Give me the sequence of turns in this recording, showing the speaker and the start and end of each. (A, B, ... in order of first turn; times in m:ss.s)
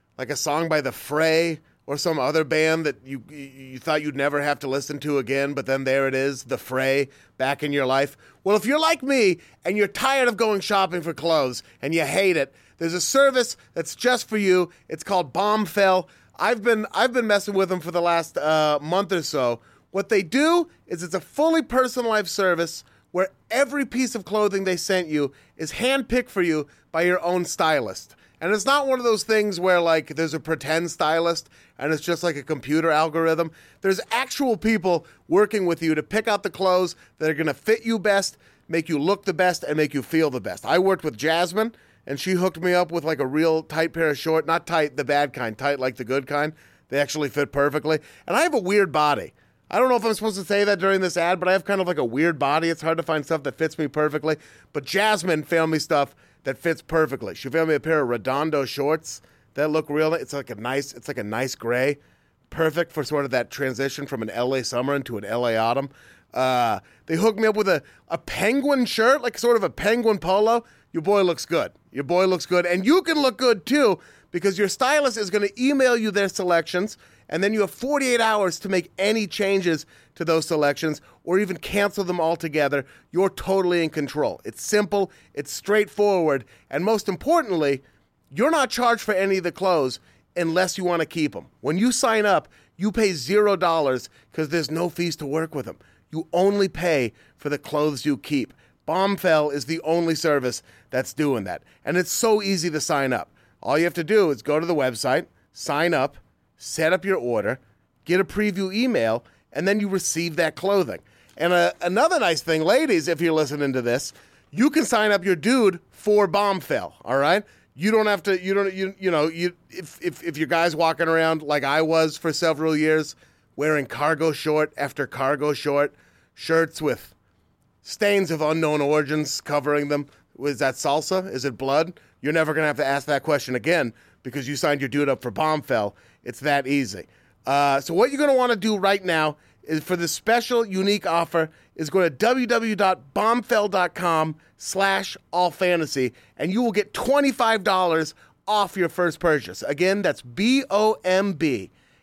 0:00.2-2:07.1 A
2:07.8-2:31.7 A